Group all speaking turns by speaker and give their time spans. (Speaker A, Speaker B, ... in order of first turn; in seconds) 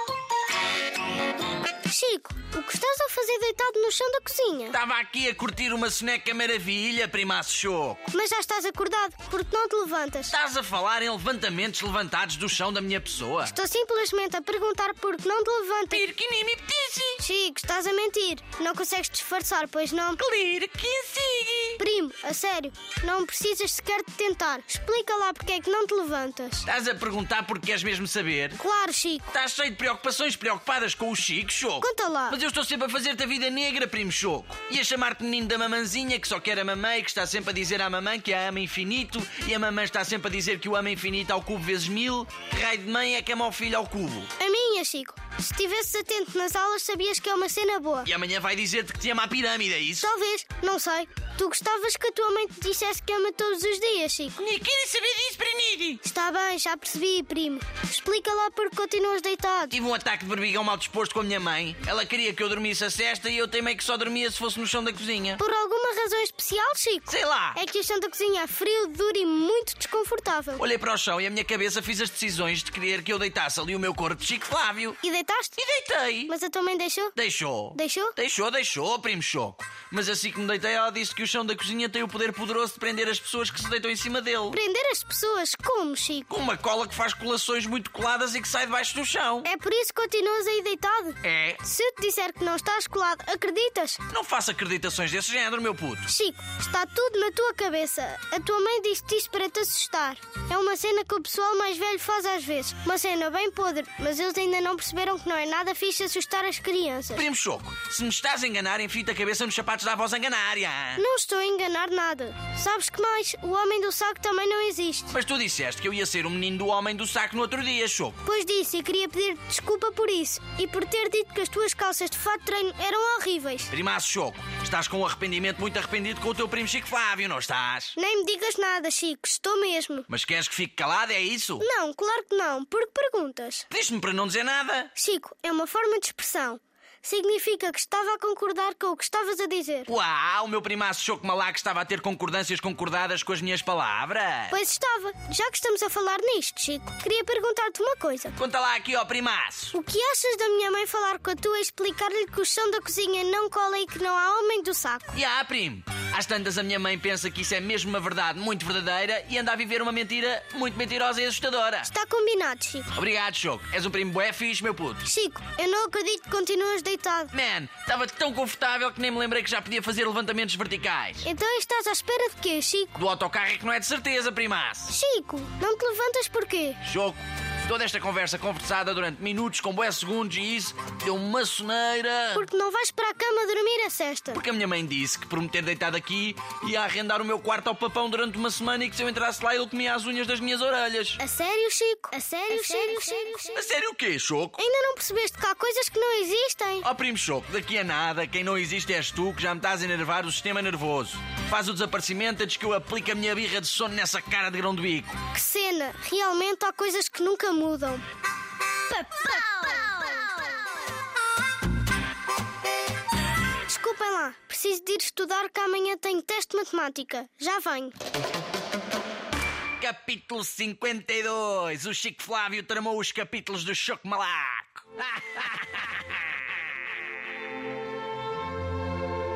Speaker A: 1.9-4.8, 8.1-10.3, 13.4-16.1, 17.2-20.2, 21.8-26.7, 28.6-29.2, 31.8-32.4, 44.4-48.1, 50.0-54.4, 56.0-59.8, 65.4-70.6, 75.0-75.6, 76.3-77.2, 77.7-78.2, 84.5-86.3, 89.4-94.0, 96.1-107.3, 111.0-115.1, 118.2-123.7, 128.0-130.1, 131.6-133.7, 134.9-139.9, 144.5-148.4, 149.7-155.1, 161.8-162.9, 165.0-167.3, 171.2-172.9, 174.9-176.8, 182.3-184.4, 191.2-193.6, 194.6-196.9, 205.3-208.0, 208.9-209.3, 213.7-217.9
Speaker B: 4.7-8.1, 10.3-13.5, 15.9-17.2, 20.2-21.8, 26.6-28.6, 29.3-44.3, 48.1-50.1, 54.4-56.0, 59.7-65.4, 67.1-67.6, 70.6-75.0, 75.6-76.3, 77.2-84.6, 86.3-89.5, 91.2-91.6, 94.1-96.1, 107.1-111.0, 115.1-118.2, 123.7-128.0, 130.1-131.7, 133.7-134.9, 139.9-144.5, 148.4-149.7, 155.1-161.9, 162.9-165.1, 167.3-171.2, 173.0-174.9, 176.8-182.5, 184.3-191.2, 193.5-194.6, 196.8-205.2, 219.8-225.9